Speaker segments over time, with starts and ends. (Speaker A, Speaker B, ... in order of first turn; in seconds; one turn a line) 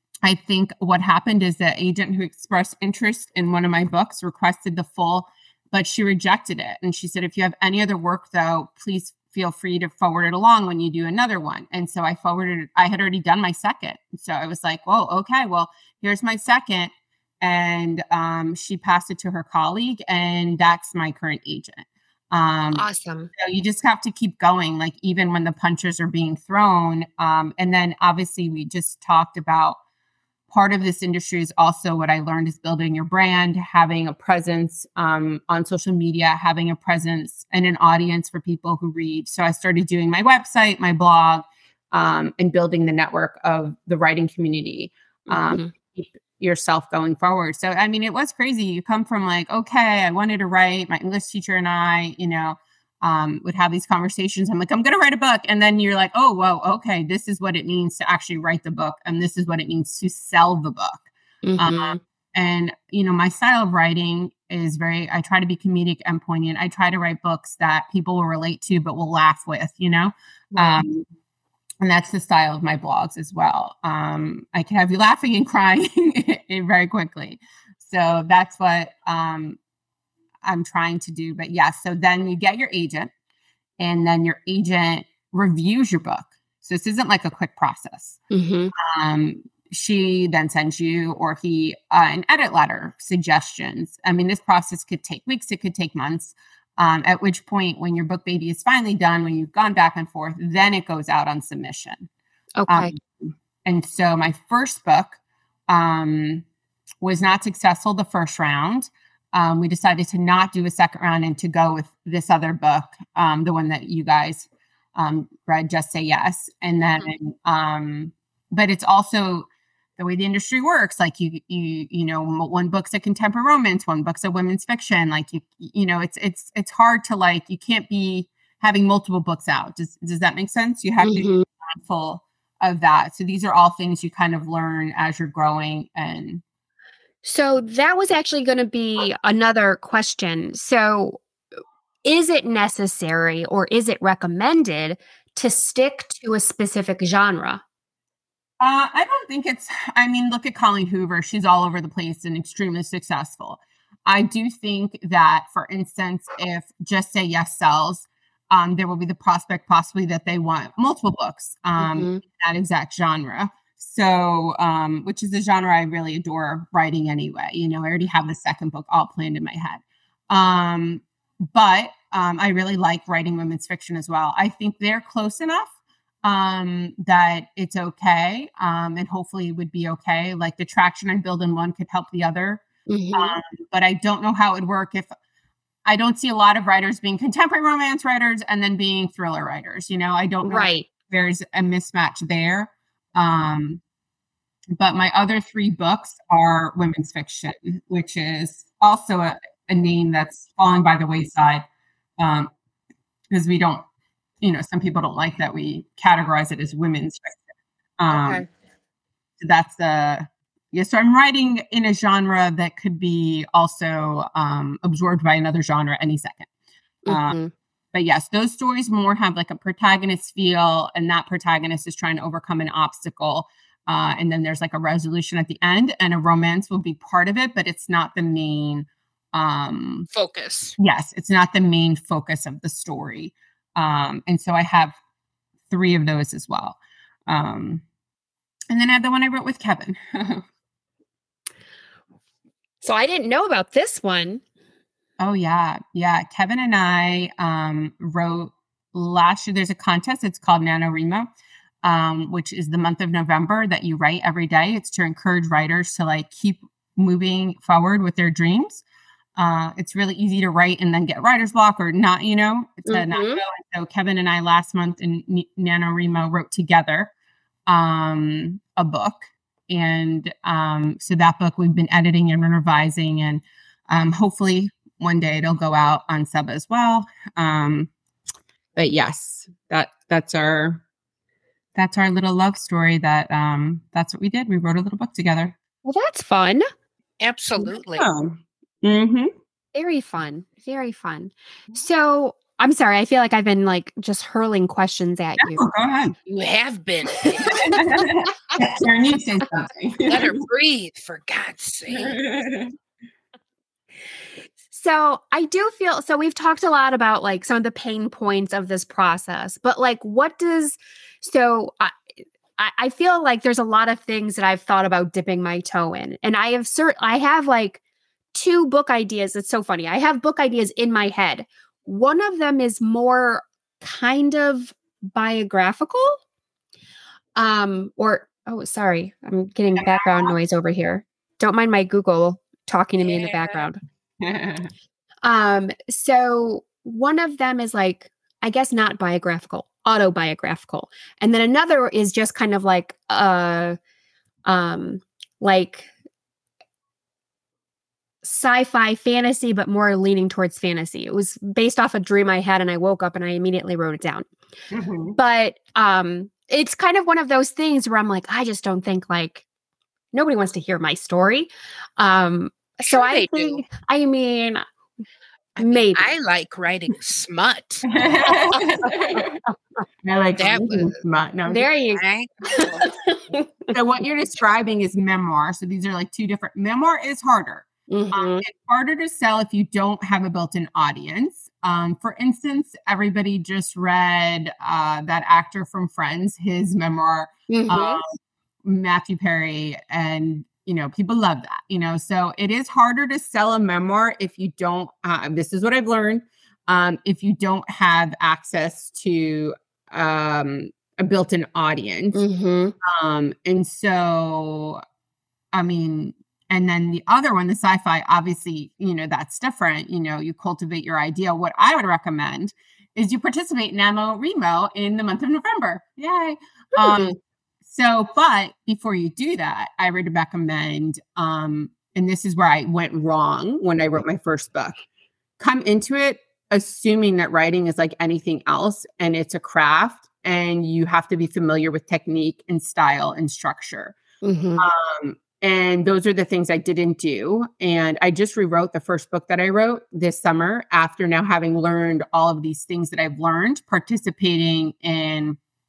Speaker A: 0.2-29.8
Speaker B: 22.7-23.3
Speaker A: 30.5-61.1
Speaker B: 45.3-45.7
Speaker B: 61.4-62.0
Speaker A: 61.6-71.0
Speaker B: 70.5-70.8
Speaker A: 71.8-79.6
Speaker A: 80.4-83.1
Speaker A: 83.8-88.2
Speaker B: 88.3-88.7
Speaker A: 88.8-102.1
Speaker B: 102.6-102.9
Speaker A: 102.7-106.5
Speaker A: 107.0-119.5
Speaker A: 120.0-136.4
Speaker B: 131.0-131.4
Speaker B: 137.2-141.2
Speaker B: 142.0-147.6
Speaker A: 148.6-182.6
Speaker B: 161.8-162.2
Speaker B: 182.9-183.4
Speaker A: 183.1-185.1
Speaker A: 185.8-193.8
Speaker B: 190.4-190.8
Speaker A: 194.7-201.7
Speaker A: 202.2-202.5
Speaker A: 203.3-203.8
Speaker A: 204.4-207.4
Speaker A: 208.0-208.4
Speaker A: 209.4-216.5
Speaker B: 217.1-217.5
Speaker A: 217.1-217.4
Speaker A: 217.9-230.1
Speaker C: 230.1-230.8
Speaker A: 230.8-234.9
Speaker A: 235.7-237.8
Speaker A: 238.7-240.4
Speaker B: 242.8-244.4
Speaker A: 245.2-251.3
Speaker A: 251.8-258.8
Speaker A: 259.4-267.1
Speaker B: 262.9-263.4
Speaker A: 267.7-277.9
Speaker A: 278.8-280.8
Speaker A: 281.7-285.5
Speaker B: 285.8-286.6
Speaker C: 287.2-288.1
Speaker A: 287.6-289.3
Speaker B: 289.7-295.6
Speaker A: 295.4-296.1
Speaker C: 296.3-297.6
Speaker B: 297.5-297.8
Speaker A: 297.6-300.4
Speaker C: 300.1-302.2
Speaker A: 301.9-302.7
Speaker B: 304.7-311.9
Speaker B: 312.6-317.8
Speaker B: 318.3-326.2
Speaker B: 327.4-333.8
Speaker A: 329.8-330.3
Speaker C: 333.1-333.6
Speaker A: 334.2-334.7
Speaker B: 335.2-343.8
Speaker B: 344.4-345.9
Speaker B: 348.2-354.3
Speaker A: 354.7-355.2
Speaker B: 355.2-359.4
Speaker B: 360.1-364.6
Speaker C: 362.9-363.6
Speaker C: 365.6-367.9
Speaker B: 365.6-366.1
Speaker A: 367.9-369.4
Speaker A: 370.0-371.7
Speaker C: 370.4-371.0
Speaker B: 371.5-373.7
Speaker C: 371.9-372.9
Speaker A: 373.7-402.2
Speaker B: 377.9-378.4
Speaker B: 387.5-388.0
Speaker B: 402.1-402.7
Speaker A: 402.8-404.8
Speaker A: 405.5-424.8
Speaker B: 416.8-417.1
Speaker A: 425.4-434.0
Speaker B: 434.2-434.6
Speaker A: 434.6-445.4